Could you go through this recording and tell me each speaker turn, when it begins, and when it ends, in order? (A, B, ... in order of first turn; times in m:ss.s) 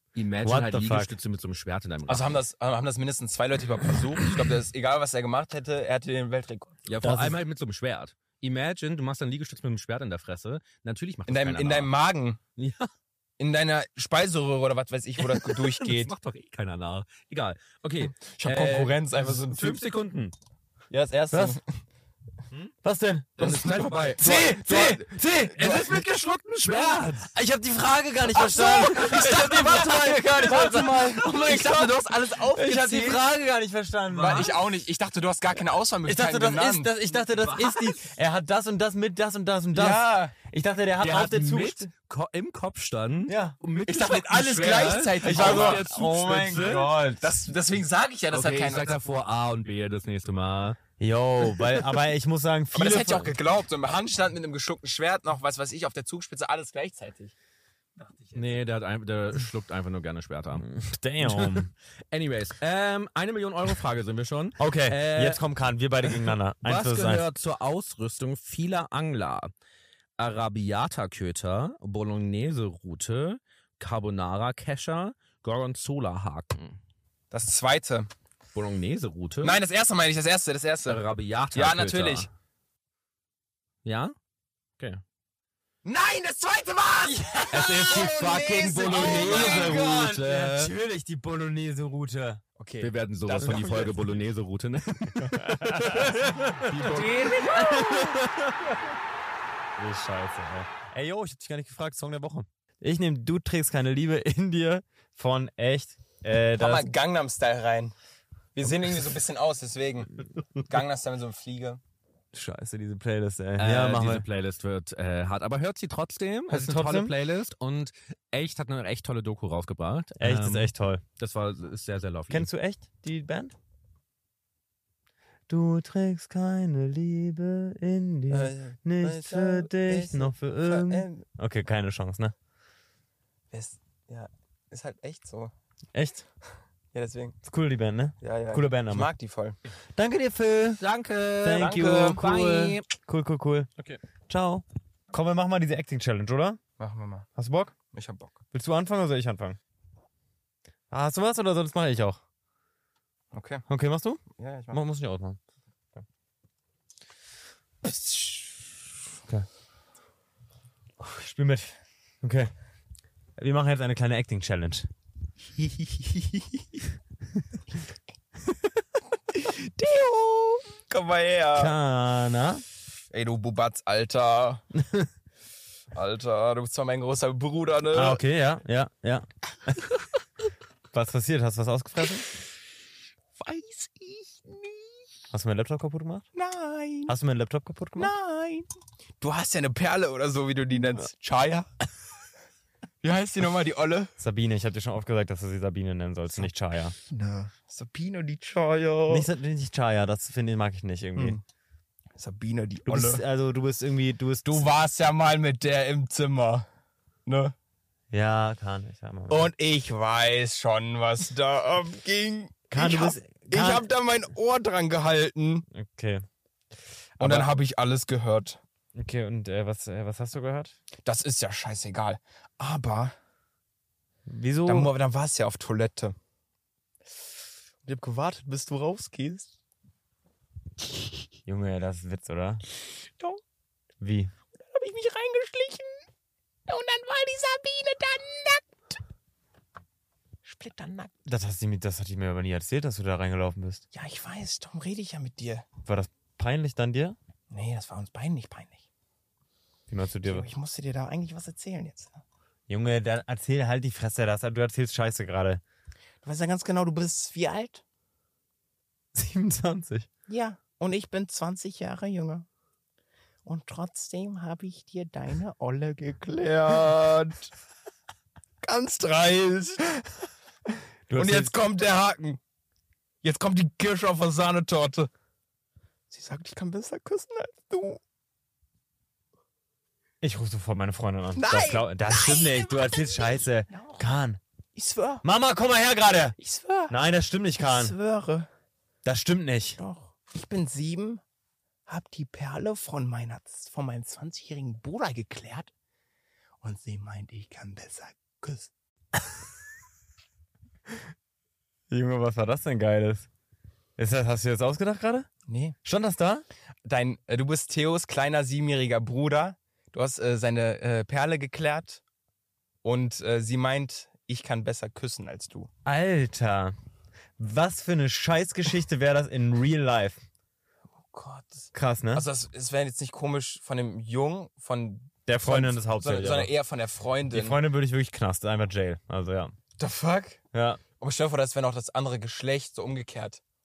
0:00.2-0:02.4 A
0:00.4-0:01.1 B
0:02.1-0:06.9 C
0:06.9-0:11.9 A
0:07.0-0:07.4 B
0:11.3-0:12.4 C
0:12.6-0:12.9 A
0:13.4-0:16.1 C
0:15.2-0:20.4 A
0:18.2-0:19.8 C
0:20.9-0:21.6 C
0:21.3-0:21.6 B
0:22.8-0:25.8 B
0:23.4-0:27.3 A
0:24.1-0:25.1 C
0:25.6-0:26.0 C
0:27.3-0:34.6 B
0:28.4-0:33.2 C
0:28.6-0:30.9 A
0:34.1-0:36.9 C
0:36.1-0:41.9 B
0:37.1-0:38.2 A
0:39.7-0:40.4 C
0:41.0-0:47.0 A
0:43.3-0:43.6 B
0:43.9-0:49.0 C
0:45.2-0:47.3 B
0:48.3-0:50.8 A
0:51.0-0:53.3 B
0:52.7-0:57.3 C
0:58.0-0:58.5 C
0:58.3-1:00.7 A
1:00.6-1:01.7 B
1:01.2-1:05.4 A
1:04.6-1:07.3 B
1:06.0-1:09.5 A
1:10.2-1:16.8 A
1:17.3-1:18.1 C
1:18.5-1:19.6 A
1:19.4-1:22.3 C
1:20.9-1:22.3 A
1:23.8-1:24.2 A
1:25.8-1:27.2 C
1:27.0-1:32.4 B
1:27.5-1:30.7 A
1:27.8-1:29.8 C
1:32.6-1:34.1 C
1:32.8-1:38.7 A
1:35.3-1:38.2 B
1:36.9-1:37.9 C
1:39.8-1:46.9 B
1:46.6-1:48.0 C
1:48.6-1:51.8 C
1:52.3-1:54.2 B
1:53.6-2:02.5 A
1:56.5-1:57.1 B
2:00.2-2:01.0 B
2:02.3-2:03.5 B
2:05.5-2:12.4 B
2:08.3-2:11.3 C
2:13.5-2:15.5 C
2:15.9-2:16.3 B
2:16.9-2:17.4 C
2:17.4-2:19.1 B
2:18.2-2:19.6 C
2:20.0-2:20.8 B
2:20.8-2:22.9 A
2:21.4-2:23.7 B
2:21.6-2:22.3 C
2:24.3-2:26.6 B
2:26.8-2:27.3 C
2:27.4-2:27.7 B
2:27.8-2:28.4 C
2:28.5-2:29.6 B
2:30.9-2:32.2 B
2:33.3-2:33.7 C
2:33.7-2:35.4 B
2:34.3-2:34.8 C
2:37.8-2:38.4 C
2:41.0-2:42.5 B
2:43.4-2:44.9 B
2:45.6-2:46.5 C
2:49.3-2:51.8 C
2:51.6-2:52.6 B
2:53.1-2:54.6 C
2:54.8-2:55.1 B
2:55.9-2:58.2 C
2:57.9-2:59.9 B
3:00.9-3:02.3 B
3:03.4-3:05.0 C
3:05.3-3:06.2 B
3:06.3-3:07.1 C
3:07.1-3:08.1 B
3:08.0-3:08.7 C
3:09.2-3:11.7 C
3:13.0-3:14.1 C
3:14.2-3:17.0 B
3:16.4-3:19.3 C
3:19.1-3:21.4 B
3:21.2-3:21.4 C
3:22.2-3:23.2 C
3:22.9-3:24.7 B
3:24.5-3:26.7 C
3:27.3-3:27.5 C
3:28.1-3:29.5 B
3:29.3-3:35.7 C
3:32.7-3:33.8 B
3:35.7-3:36.2 B
3:37.2-3:38.6 C
3:37.2-3:37.5 B
3:39.0-3:40.8 B
3:41.0-3:43.1 C
3:44.3-3:44.9 B
3:44.7-3:46.2 C
3:47.8-3:49.6 C
3:51.5-3:52.6 B
3:54.0-3:54.3 B
3:54.6-3:56.0 C
3:56.7-3:58.9 C
4:00.4-4:01.1 C
4:01.3-4:03.8 B
4:03.9-4:05.7 C
4:05.8-4:07.2 B
4:07.5-4:08.8 C
4:09.9-4:10.5 B
4:10.2-4:12.2 C
4:12.7-4:15.6 B
4:16.2-4:17.8 C
4:19.2-4:20.1 B
4:20.3-4:22.5 C
4:23.4-4:27.5 C
4:28.6-4:30.1 C
4:31.1-4:31.5 B
4:31.1-4:32.4 C
4:33.2-4:35.1 C
4:36.1-4:38.0 C
4:40.2-4:44.4 B
4:41.4-4:44.1 C
4:44.8-4:45.2 C
4:45.2-4:46.4 B
4:46.4-4:47.0 C
4:46.9-4:47.9 B
4:47.6-4:48.5 C
4:49.0-4:49.8 B
4:49.8-4:51.2 C
4:51.9-4:55.7 C
4:56.6-4:58.7 C
5:01.9-5:03.3 B
5:04.0-5:05.3 B
5:05.5-5:05.8 C
5:05.8-5:06.4 B
5:06.9-5:12.0 C
5:12.8-5:15.7 C
5:15.8-5:16.7 B
5:17.4-5:20.2 B
5:21.0-5:27.6 C
5:21.7-5:22.3 B
5:25.3-5:26.5 B
5:27.3-5:29.5 B
5:29.8-5:30.4 C
5:30.5-5:30.8 B
5:31.0-5:33.4 C